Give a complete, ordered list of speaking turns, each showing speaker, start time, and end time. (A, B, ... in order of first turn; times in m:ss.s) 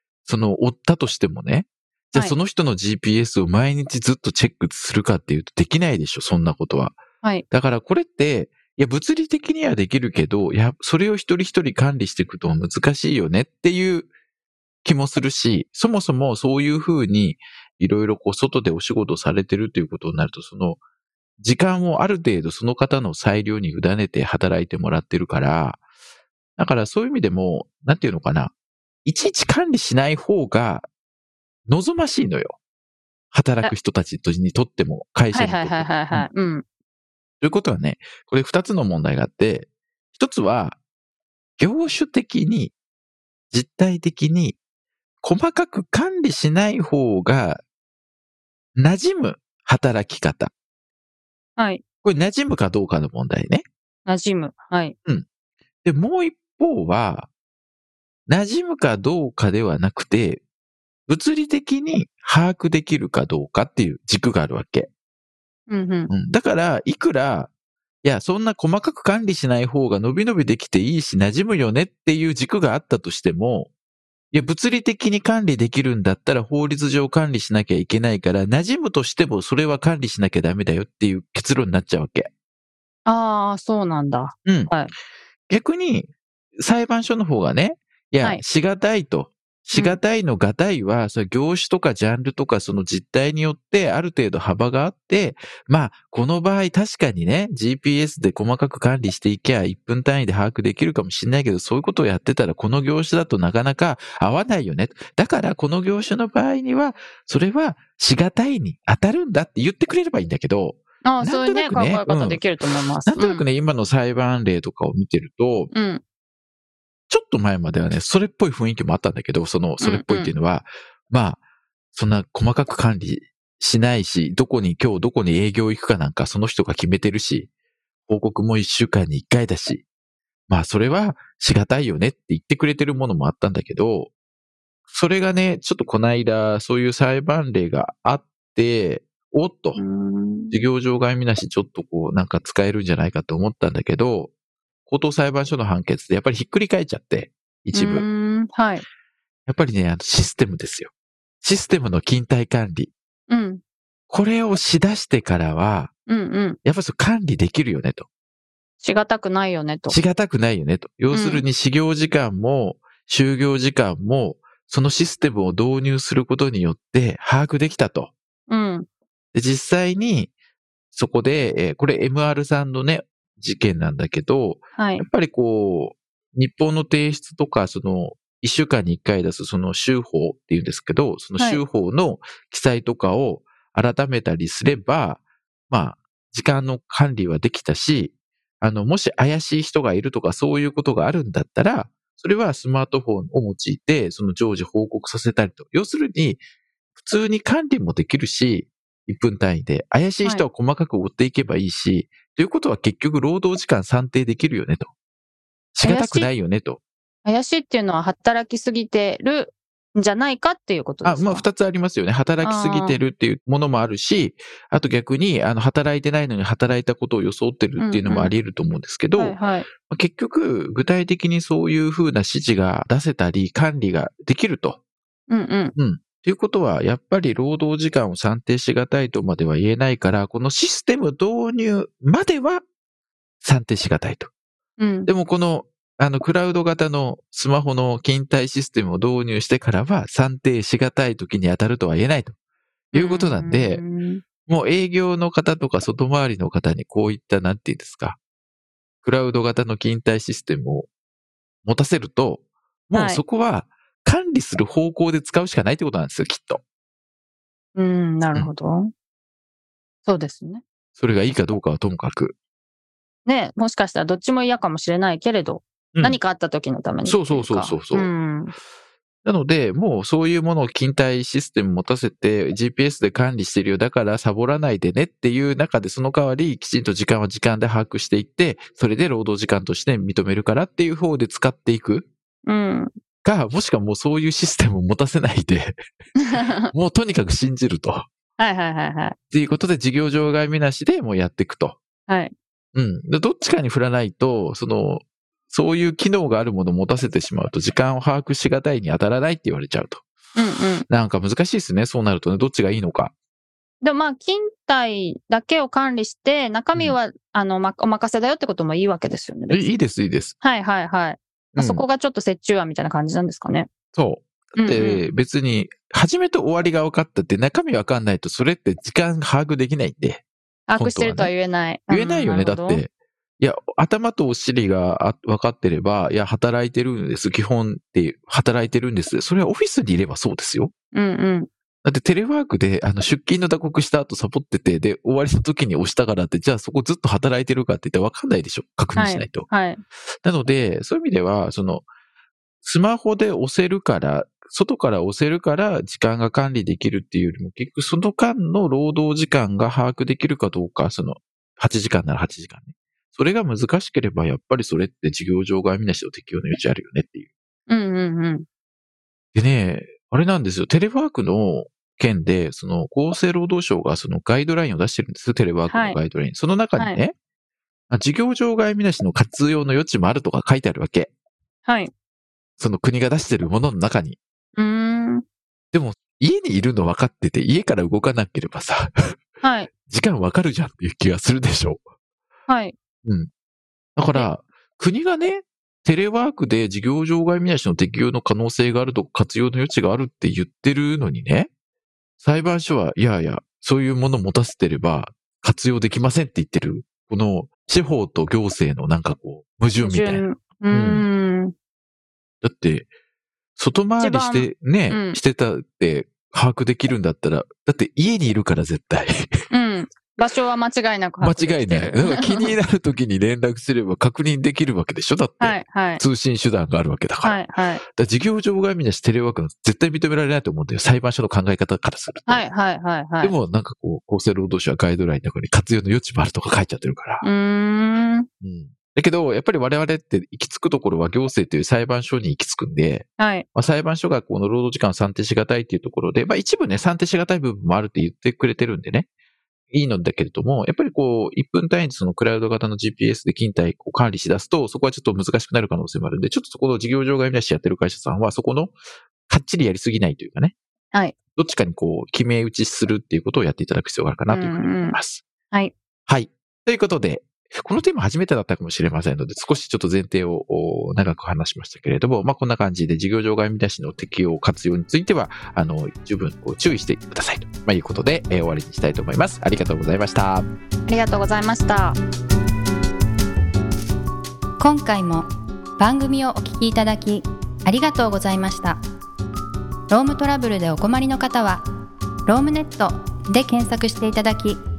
0:00.3-0:14.1 A
0:14.8-0:20.8 A
0:21.4-0:25.8 A
0:26.6-0:28.5 A
0:29.0-0:30.9 A
0:31.7-0:32.6 A
0:33.3-0:36.3 A
0:35.3-0:36.6 B
0:37.4-0:40.8 A
0:41.6-0:42.8 A
0:43.5-0:44.6 A
0:45.2-0:47.6 A
0:48.8-0:50.5 A
0:51.6-0:51.8 B
0:52.0-0:53.6 A
0:54.1-0:55.0 B
0:55.8-0:57.3 A
0:58.3-1:00.4 A
1:01.1-1:04.9 A
1:05.7-1:06.1 B
1:06.1-1:07.5 A
1:08.0-1:13.7 A
1:14.3-1:22.3 A
1:23.1-1:24.9 B
1:24.4-1:24.8 A
1:25.5-1:52.5 A
1:29.7-1:30.0 B
1:51.0-1:53.4 B
1:53.1-1:55.7 A
1:55.7-1:56.0 B
1:57.1-2:01.4 A
1:59.8-2:00.3 B
2:01.9-2:07.5 A
2:08.1-2:09.8 A
2:10.5-2:14.1 A
2:14.9-2:19.8 A
2:19.8-2:20.6 B
2:20.5-2:24.3 A
2:24.9-2:28.1 A
2:27.7-2:28.8 B
2:29.5-2:32.9 A
2:33.3-2:33.6 B
2:34.1-2:35.9 A
2:36.1-2:36.6 B
2:36.6-2:38.1 A
2:38.8-2:40.0 B
2:39.9-2:48.1 A
2:41.1-2:41.4 B
2:48.5-2:48.9 B
2:49.3-2:50.4 A
2:50.9-3:16.4 A
2:54.8-2:55.0 B
3:17.0-3:24.9 A
3:25.8-3:26.8 A
3:25.8-3:26.3 B
3:27.2-3:31.4 B
3:31.0-3:44.8 A
3:32.4-3:33.0 B
3:37.8-3:38.3 B
3:39.2-3:39.7 B
3:45.3-3:45.8 B
3:45.8-3:52.6 A
3:53.4-3:54.3 A
3:54.8-3:55.1 B
3:55.1-4:02.4 A
4:02.9-4:03.8 A
4:02.9-4:04.2 B
4:04.4-4:08.2 A
4:09.0-4:10.9 A
4:11.6-4:16.6 A
4:13.0-4:13.2 B
4:17.8-4:18.9 B
4:20.1-4:20.6 B
4:21.0-4:22.4 A
4:23.3-4:28.5 B
4:25.9-4:26.2 A
4:27.0-4:28.1 A
4:29.2-4:42.1 A
4:42.5-4:42.9 B
4:43.2-4:45.8 A
4:46.2-4:46.6 B
4:46.5-4:48.1 A
4:48.4-4:49.2 B
4:49.3-4:51.8 A
4:52.1-4:52.3 B
4:52.8-5:00.0 A
5:00.4-5:00.9 B
5:00.9-5:03.1 A
5:03.8-5:09.7 B
5:09.5-5:10.4 A
5:10.4-5:13.7 B
5:11.6-5:11.8 A
5:13.9-5:20.2 A
5:14.6-5:15.0 B
5:20.7-5:22.8 B
5:20.8-5:21.3 A
5:21.9-5:30.7 A
5:30.9-5:31.5 B
5:31.8-5:39.5 A
5:39.0-5:39.8 B
5:40.2-5:41.9 A
5:42.6-5:57.3 A
5:57.7-5:58.5 B
5:59.4-6:07.1 A
6:05.7-6:06.0 B
6:06.8-6:07.0 B
6:07.9-6:11.1 A
6:11.7-6:11.9 B
6:12.6-6:14.2 A
6:14.6-6:15.2 B
6:15.7-6:18.9 A
6:19.4-6:19.7 B
6:19.9-6:21.8 A
6:22.5-6:22.8 B
6:23.0-6:23.3 A
6:24.0-6:31.5 A
6:32.2-6:41.0 A
6:39.8-6:41.5 B
6:42.4-6:42.9 A
6:43.6-6:49.4 A
6:44.0-6:45.2 B
6:49.5-6:52.6 B
6:51.2-7:02.5 A
6:55.4-6:56.0 B
6:57.2-6:57.8 B
7:02.3-7:03.4 B
7:03.2-7:07.3 A
7:07.2-7:08.3 B
7:08.4-7:19.1 A
7:13.2-7:13.5 B
7:19.7-7:28.8 A
7:29.3-7:30.6 A
7:31.4-7:35.2 A
7:34.3-7:35.0 B
7:36.1-7:50.5 A
7:50.9-7:52.0 B
7:54.6-7:58.8 C
7:59.9-8:01.6 C
8:02.3-8:04.6 C